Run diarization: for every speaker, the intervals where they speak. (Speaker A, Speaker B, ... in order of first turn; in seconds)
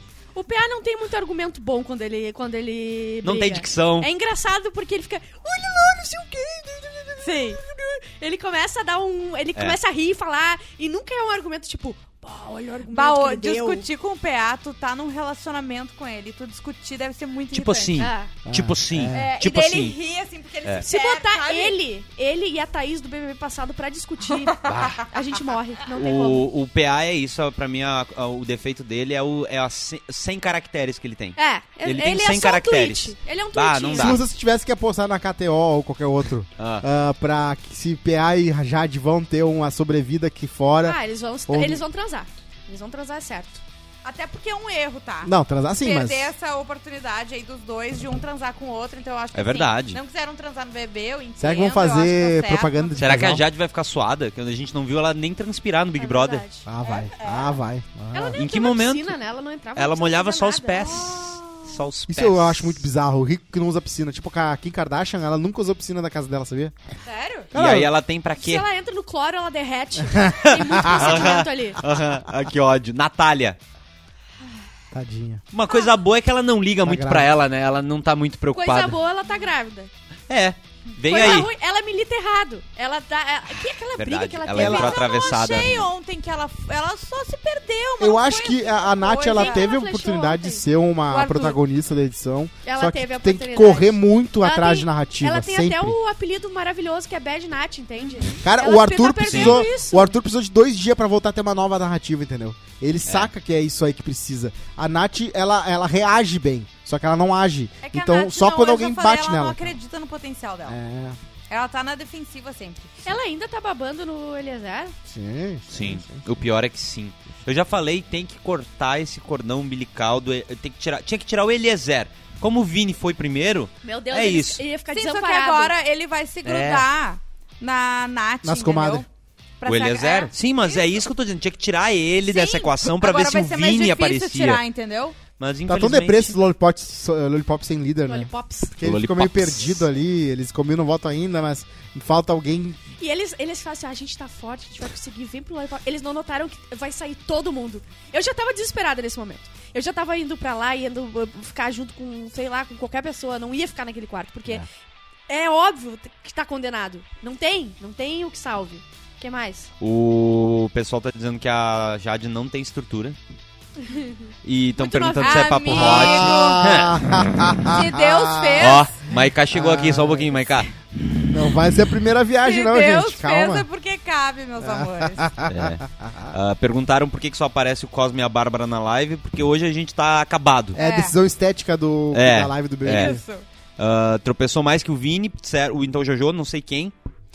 Speaker A: 0.3-13.9, 18.0-18.3, 20.8-26.5, 31.4-34.2, 40.8-43.6, 56.0-56.7, 58.1-61.0, 68.4-71.8, 78.5-79.9, 81.1-85.7, 89.3-90.6, 92.6-100.2, 113.0-115.0, 123.8-125.7, 138.1-138.8, 143.0-154.7, 155.3-159.7, 163.8-164.3, 164.8-165.9
Speaker B: 3.2-4.1, 17.5-20.0, 24.7-25.0, 26.0-34.2, 36.6-36.9, 49.3-50.0, 53.0-56.4, 58.4-59.2, 59.8-62.8, 67.5-68.7, 70.4-73.6, 75.5-79.0, 80.3-81.5, 84.0-85.9, 99.3-99.7, 115.7-124.7, 126.5-126.9, 129.7-134.6, 135.4-136.4, 138.8-139.8, 159.8-163.2, 164.4-167.0, 168.6-170.7, 175.5-180.8, 182.1-183.2, 183.8-186.9
Speaker C: 7.2-7.6, 12.9-18.1, 19.1-21.8, 24.5-24.9, 44.0-53.0, 56.8-57.6, 61.0-61.7, 67.0-67.5, 81.1-81.4, 84.6-89.7, 91.1-91.6, 98.0-98.3, 107.8-110.8, 111.5-113.1, 124.9-129.1, 129.6-131.0, 132.3-135.2, 165.2-166.7, 167.7-168.9, 172.4-175.3, 180.8-181.2, 182.9-183.4
Speaker D: 18.4-19.3, 34.0-41.8, 45.2-46.3, 51.4-53.5, 56.7-58.4, 62.1-66.8, 67.5-67.9, 70.1-71.3, 74.9-75.4, 76.8-77.3, 84.6-84.8, 88.0-96.0, 98.4-109.7, 110.7-111.2, 115.1-116.2, 128.4-129.1, 135.7-142.8, 165.7-168.8, 169.5-170.5, 171.3-173.7, 174.6-176.4, 180.8-183.2